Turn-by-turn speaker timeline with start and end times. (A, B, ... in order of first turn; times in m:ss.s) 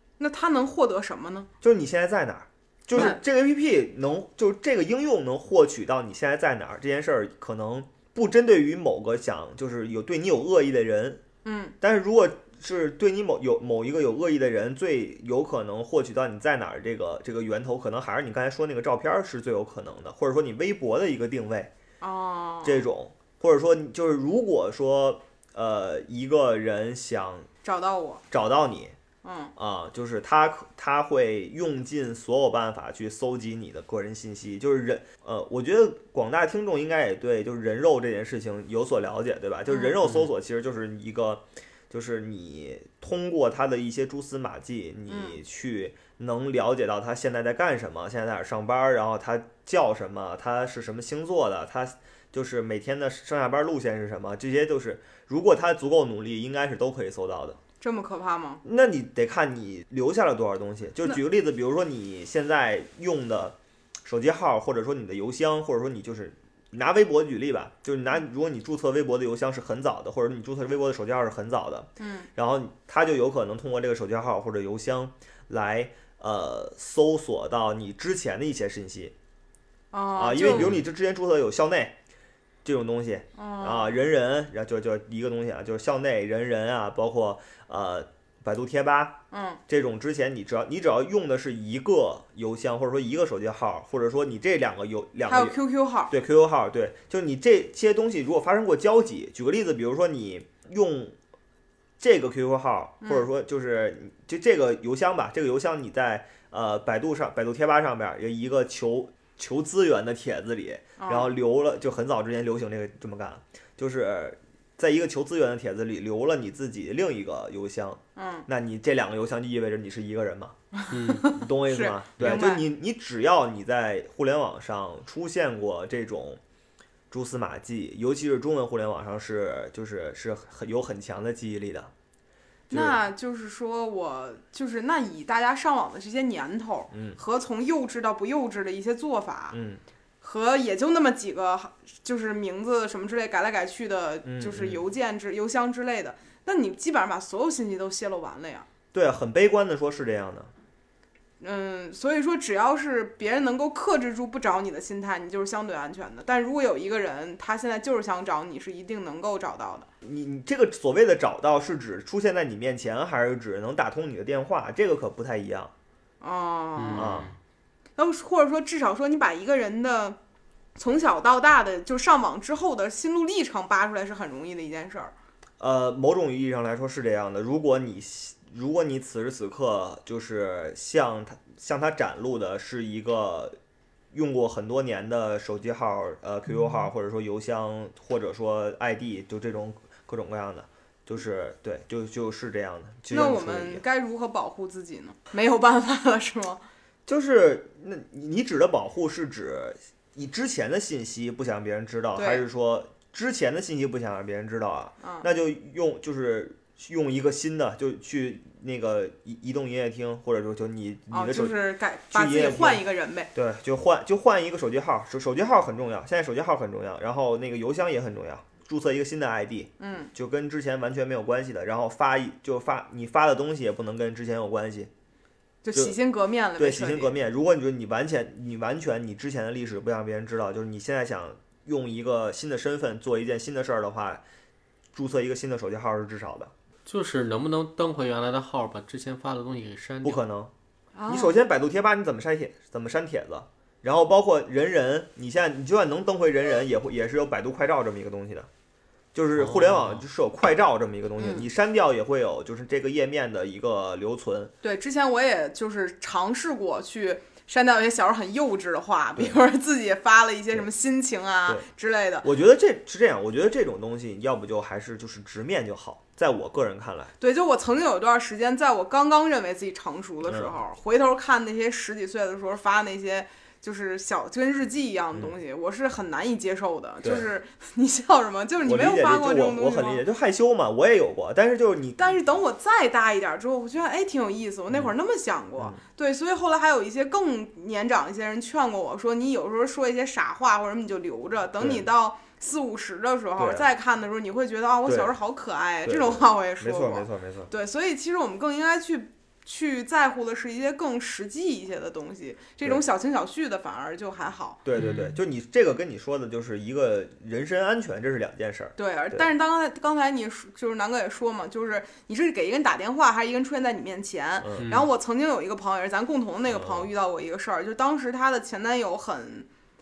0:00.2-0:01.5 A
0:01.6-0:11.2 B
0:11.4-0:11.8 A
0:11.8-0:21.7 B
0:22.0-0:22.8 A
0:22.6-0:27.5 B
0:27.6-0:28.2 A
0:28.3-0:29.0 B
0:29.2-0:29.5 A
0:29.6-0:57.6 B
0:39.7-0:40.0 A
0:45.1-0:45.4 A
0:57.8-0:58.6 A
0:58.6-1:19.1 B
1:12.0-1:12.3 A
1:19.9-1:20.8 A
1:20.2-1:22.0 B
1:20.5-1:20.8 C
1:22.6-1:35.6 B
1:23.4-1:23.9 A
1:29.3-1:29.6 A
1:35.3-1:36.1 A
1:36.1-1:41.2 B
1:42.0-2:00.6 B
1:43.0-1:43.3 A
1:51.0-1:51.3 A
1:58.2-1:58.5 A
2:00.7-2:02.6 A
2:00.9-2:01.3 C
2:01.3-2:06.4 B
2:07.1-2:11.9 B
2:12.7-2:19.6 A
2:12.7-2:13.0 B
2:16.9-2:17.2 B
2:19.5-2:19.8 B
2:20.2-2:28.7 A
2:24.2-2:24.8 B
2:28.9-2:30.5 B
2:31.4-2:39.9 A
2:40.0-2:45.7 B
2:46.2-2:47.3 A
2:46.8-2:47.3 C
2:47.0-2:47.3 B
2:48.0-2:50.2 A
2:50.8-2:55.1 A
2:55.6-3:03.6 B
3:04.1-3:13.8 B
3:13.1-3:16.6 A
3:17.1-3:31.6 B
3:22.2-3:22.4 A
3:25.0-3:25.3 A
3:31.1-3:33.3 A
3:32.1-3:32.8 B
3:33.3-3:44.9 B
3:39.8-3:40.1 A
3:45.6-3:47.1 A
3:46.6-3:54.2 B
3:55.0-3:56.5 B
3:56.8-4:00.2 C
4:00.0-4:00.5 B
4:01.0-4:01.4 A
4:01.1-4:08.5 B
4:09.1-4:14.5 B
4:09.4-4:10.0 C
4:11.2-4:11.5 A
4:14.6-4:22.3 A
4:19.2-4:19.4 B
4:22.2-4:27.1 B
4:27.2-4:40.0 A
4:30.2-4:30.6 B
4:38.6-4:42.1 B
4:42.0-5:04.6 A
4:51.6-4:51.9 B
4:53.4-4:53.7 B
4:54.8-4:55.1 B
4:55.8-4:57.5 B
5:04.6-5:09.3 B
5:04.8-5:05.1 C
5:08.8-5:19.5 A
5:14.4-5:14.7 B
5:14.6-5:14.9 C
5:16.5-5:16.9 B